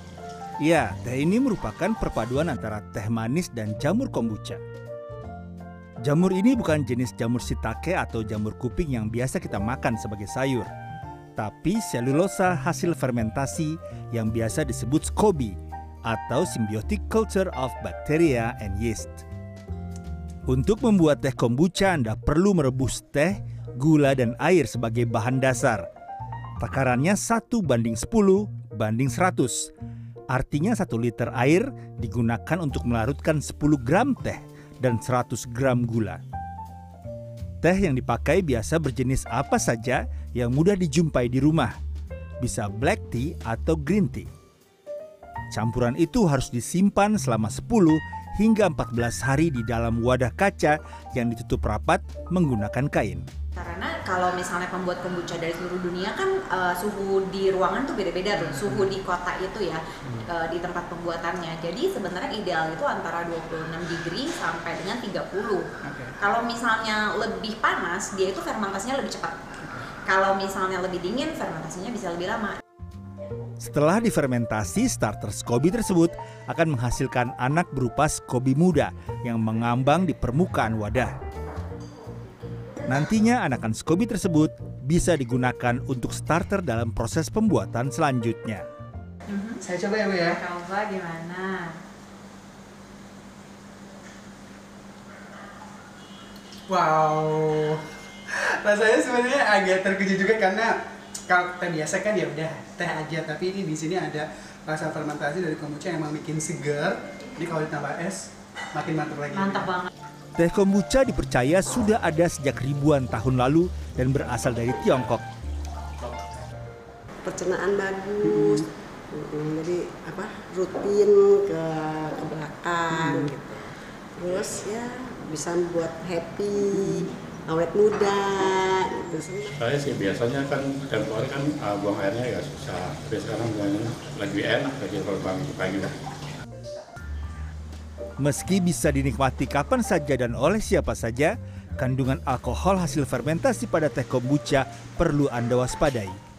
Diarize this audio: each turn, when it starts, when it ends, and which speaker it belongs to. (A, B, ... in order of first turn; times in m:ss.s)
0:00.6-0:04.6 A
0:06.0-0:10.7 A
0:11.4-0:15.6 A
0:16.1-0:19.2 A
0:20.5-0:25.9 A
0:26.6-0:29.7 A
0:30.3-0:36.2 A
0:37.6-0:41.8 A
0:42.4-0:44.3 A
0:45.5-0:53.2 A
0:53.6-1:05.6 B
1:06.2-1:09.4 B
1:10.1-1:12.6 B
1:13.6-1:21.1 A
1:22.9-1:28.6 A
1:29.3-1:29.6 B
1:29.6-1:30.4 C
1:30.2-1:31.8 B
1:36.7-1:40.8 C
1:41.3-1:49.7 C
1:50.4-1:55.2 A
1:57.2-2:09.6 D
2:09.5-2:15.9 E
2:18.2-2:26.2 A